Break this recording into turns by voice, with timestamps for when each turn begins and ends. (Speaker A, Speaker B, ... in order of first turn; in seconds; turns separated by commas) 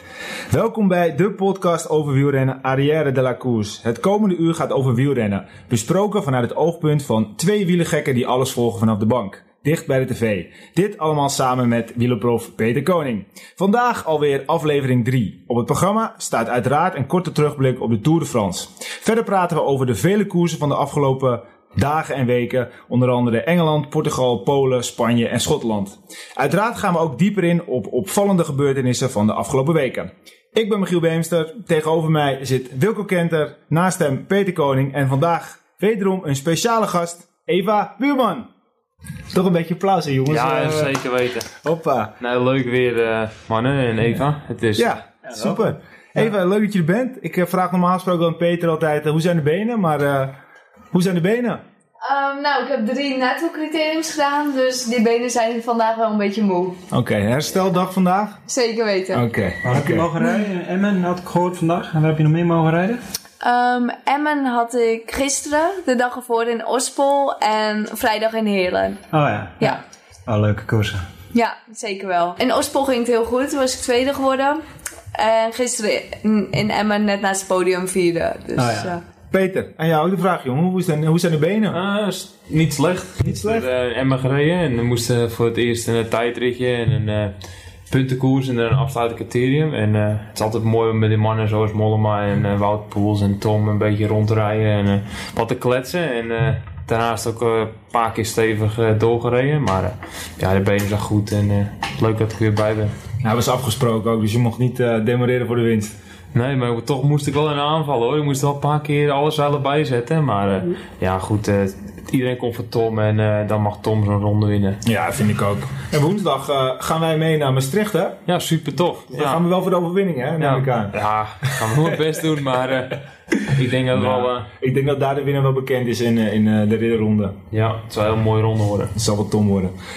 Speaker A: 0.5-38.5, Speaker A: 39.3-40.9, Speaker B: 40.3-41.5, Speaker A: 41.6-42.1, Speaker B: 42.2-45.0, Speaker A: 44.8-50.3, Speaker C: 45.2-45.7, Speaker A: 50.9-51.6, Speaker D: 52.0-56.8, Speaker A: 56.9-58.4, Speaker D: 58.5-59.2, Speaker A: 59.1-60.1, Speaker C: 59.6-63.0, Speaker D: 63.4-69.0, Speaker C: 69.1-71.0, Speaker D: 71.3-74.6, Speaker D: 75.1-79.0, Speaker C: 78.5-78.9, Speaker A: 79.3-81.8, Speaker B: 81.7-87.3, Speaker A: 83.2-83.7, Speaker B: 87.9-102.9, Speaker A: 103.2-105.9, Speaker B: 106.3-114.8, Speaker A: 114.8-118.2, Speaker B: 118.2-119.4, Speaker A: 119.1-122.0, Speaker B: 120.4-124.5, Speaker A: 123.9-127.3, Speaker B: 127.5-128.9, Speaker A: 128.9-129.7